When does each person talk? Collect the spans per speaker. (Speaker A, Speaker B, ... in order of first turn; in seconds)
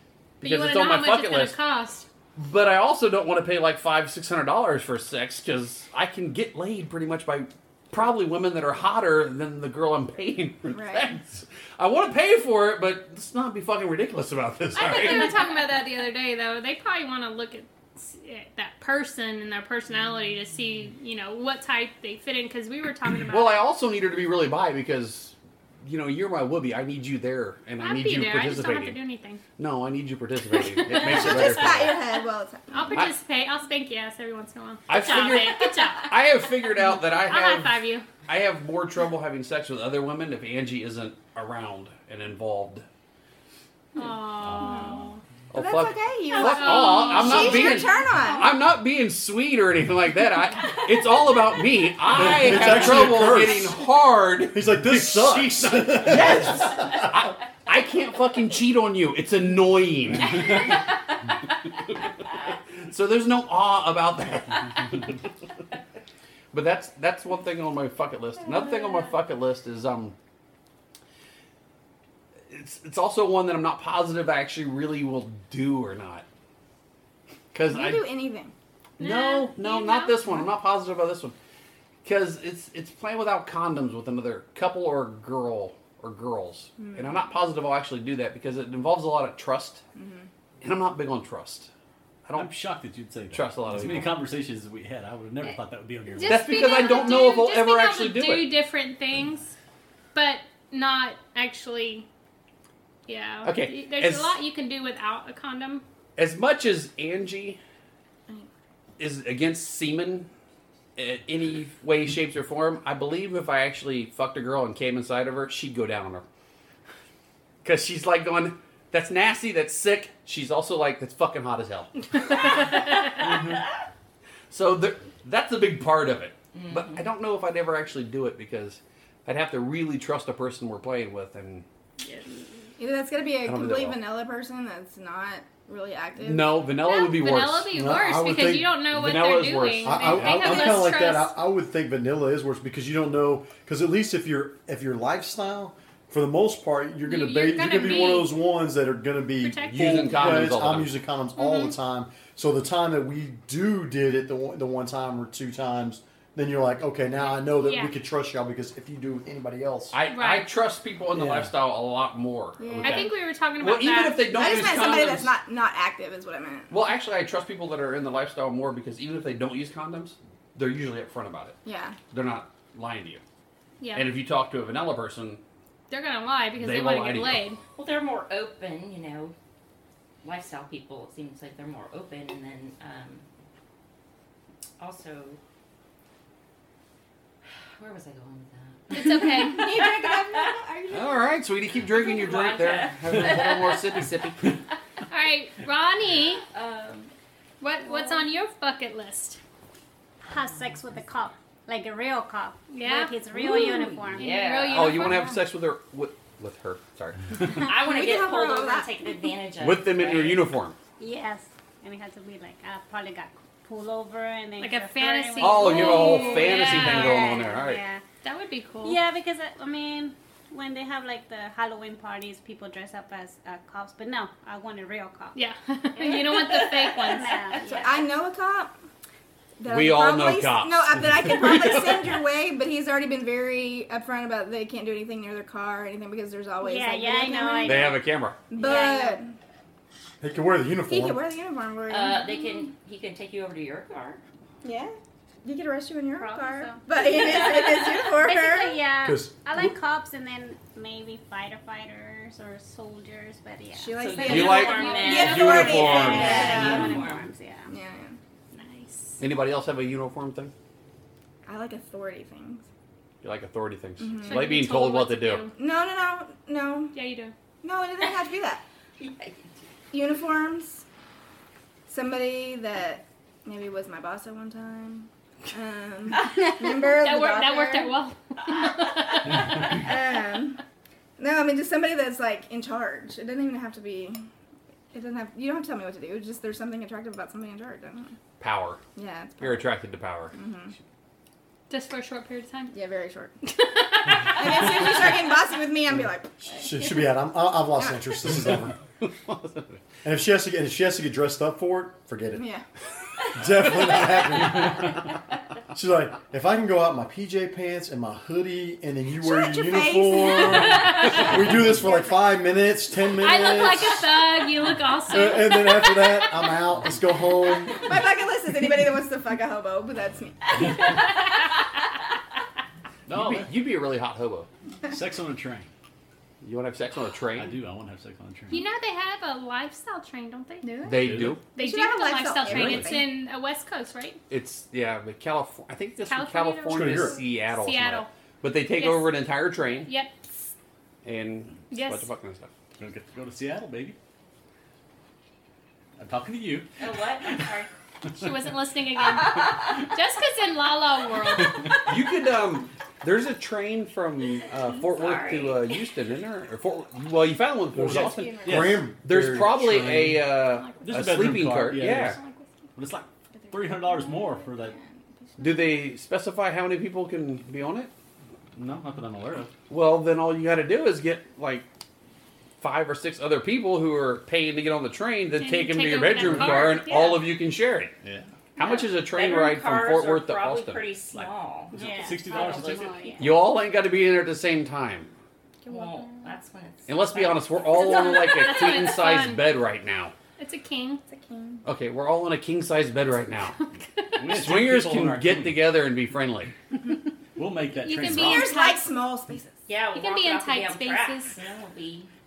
Speaker A: 0.4-1.6, 2.4-15.4, 23.3-29.0, 29.6-32.0, 34.9-42.8, 45.5-60.6, 62.9-65.0, 66.5-70.1, 72.5-76.2, 77.5-78.1, 79.0-81.3, 82.0-89.8, 90.6-91.7, 93.3-94.2, 96.2-98.6, 103.4-104.3, 106.2-107.6, 109.0-110.3, 111.0-116.2, 117.6-121.9, 124.5-131.6, 133.4-134.0, 136.2-137.7, 138.9-140.9, 149.7-151.0, 159.9-165.3, 166.7-171.6, 172.1-173.2, 173.9-175.4, 176.6-177.4, 190.9-194.5, 204.7-207.2, 209.6-210.8, 215.4-217.8, 229.7-232.1, 237.6-238.4, 254.2-256.7, 259.2-260.5, 263.2-265.5, 288.4-288.8, 289.4-290.3, 299.0-299.8, 323.1-324.5, 326.4-327.5, 330.8-331.4, 334.3-339.9, 341.0-342.5, 351.9-362.2, 365.4-367.9, 369.7-371.6, 372.6-377.9, 378.6-380.9, 383.2-385.1, 386.9-390.1, 391.6-393.6, 394.3-396.5
Speaker B: 0.4-2.1, 14.8-23.6, 27.8-29.4, 30.9-31.5, 32.7-36.1, 37.1-38.1, 43.9-45.2, 46.3-48.4, 79.0-80.5, 96.1-99.5, 100.1-102.1, 103.1-105.8, 136.8-141.3, 147.0-148.3, 149.4-150.5, 151.4-151.7, 157.4-157.9, 160.1-160.5, 162.8-164.6, 173.8-174.1, 175.9-177.6, 188.9-189.7, 195.1-196.4, 197.6-199.4, 202.7-203.1, 204.2-205.4, 214.6-217.3, 218.2-219.0, 225.3-227.3, 254.5-256.9, 258.5-259.2, 264.2-265.5, 266.9-267.3, 277.0-279.4, 291.7-292.7, 293.5-294.4, 313.1-316.6, 328.5-330.7, 331.5-334.2, 336.1-338.1, 338.8-339.2, 339.8-340.5, 341.7-342.1, 348.2-351.7, 360.5-361.1, 361.8-362.5, 375.4-377.3, 385.6-386.1, 387.7-389.4, 390.4-391.0, 393.6-394.2, 397.8-398.8, 399.9-401.4
Speaker C: 10.7-11.1, 30.8-33.0, 44.6-45.0, 45.5-48.5, 77.7-78.5, 86.8-87.2, 90.0-90.3, 132.8-136.6, 162.6-163.1, 164.3-166.7, 171.6-171.9, 189.2-191.3, 207.6-209.3, 227.7-228.7, 229.6-237.9, 238.5-239.3, 240.9-242.6, 244.6-248.8, 253.7-257.0, 257.7-258.2, 261.4-262.7, 264.0-264.5, 265.6-266.9, 267.6-268.6, 269.9-270.8, 271.9-277.9, 279.6-280.6, 281.2-284.2, 284.9-288.2, 288.9-289.6, 290.3-290.7, 292.7-293.3, 294.2-296.9, 297.8-298.0, 302.4-302.6, 309.2-312.0, 317.7-320.8, 330.6-333.1, 357.8-358.7, 363.4-365.8, 391.1-391.6, 398.1-399.6
Speaker D: 52.1-53.8, 54.5-57.1, 137.7-138.7, 139.8-159.9, 161.1-161.5, 240.2-241.2, 249.0-249.7, 296.5-298.7, 300.0-302.5, 303.3-305.1, 305.7-314.0, 315.1-317.9, 336.7-337.2, 357.7-360.2
Speaker E: 92.3-97.2, 323.1-323.5, 324.9-325.7, 327.3-328.6, 331.0-331.4, 342.8-343.9, 346.0-346.7, 347.2-348.3, 351.4-351.7, 358.4-358.8, 360.8-362.2, 362.8-364.7, 368.5-369.5, 376.2-376.7, 378.0-378.3, 381.1-383.1, 394.1-395.7, 397.4-398.6
Speaker F: 126.5-127.0, 177.8-179.3, 180.2-183.2, 184.8-185.4, 187.4-190.6, 191.8-194.1, 196.5-197.1, 197.9-198.3, 203.3-205.1, 207.5-210.4, 226.0-227.9, 241.9-244.2, 254.0-257.3, 269.0-269.3, 346.8-347.7, 354.8-355.8, 378.6-382.6, 385.7-388.4, 399.7-402.1
Speaker G: 200.3-204.5, 211.0-218.0, 218.8-225.3, 226.9-228.0, 236.6-238.0, 238.5-239.2, 246.1-255.1, 255.9-257.7, 381.7-383.5